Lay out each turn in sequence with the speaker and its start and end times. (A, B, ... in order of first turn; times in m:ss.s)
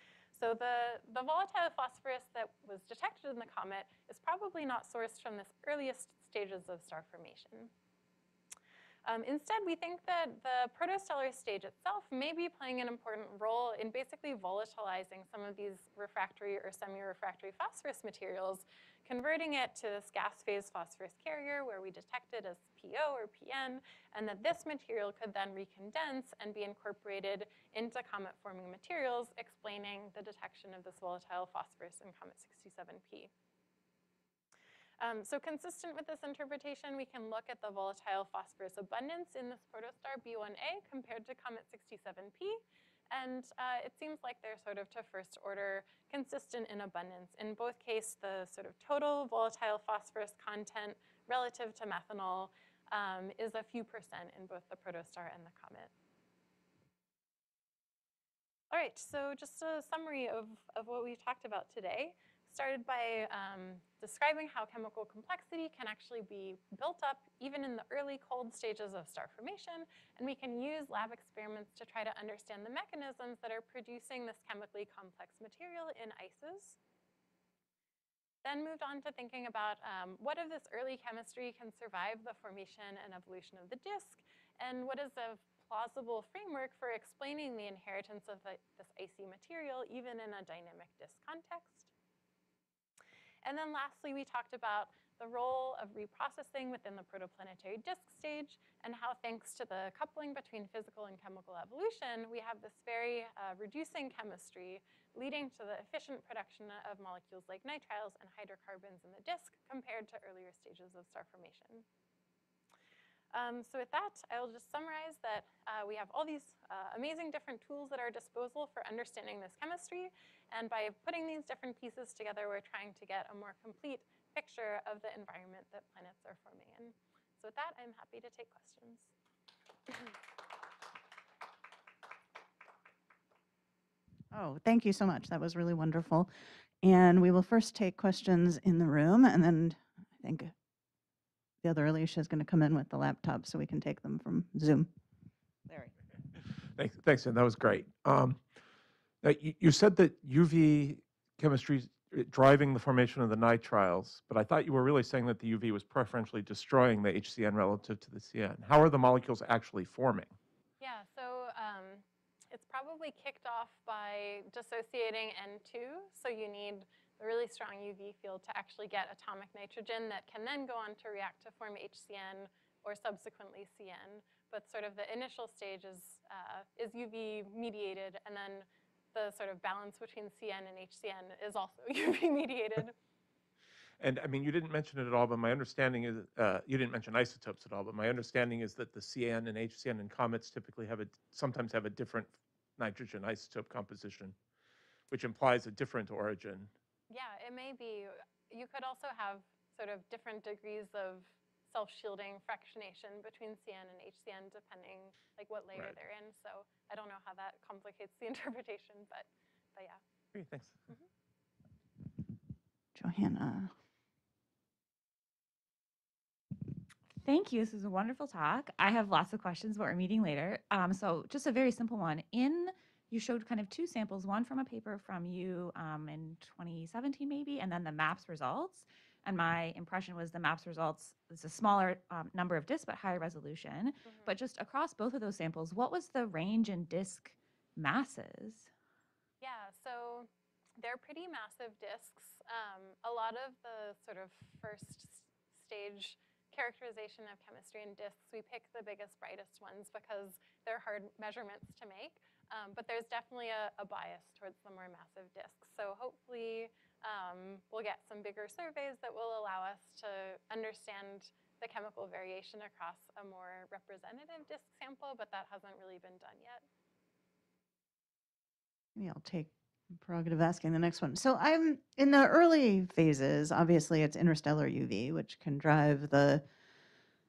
0:00.3-0:07.7 A
0:09.0-0:33.3 A
0:35.0-0:55.9 A
0:58.7-1:16.8 A
1:18.4-1:31.9 A
1:33.4-1:51.9 A
1:53.3-2:09.1 A
2:09.9-2:10.1 A
2:14.3-2:16.3 B
2:16.8-2:20.5 B
2:21.6-2:24.9 B
2:26.8-2:28.5 C
2:29.2-2:40.4 C
2:40.8-3:03.0 A
3:04.0-3:14.4 C
3:15.1-3:16.7 C
3:17.1-3:30.0 A
3:30.3-3:30.8 C
3:33.0-3:33.7 B
3:37.2-3:58.7 D
3:54.0-3:54.3 A
3:59.4-4:26.7 A
4:29.0-4:36.5 B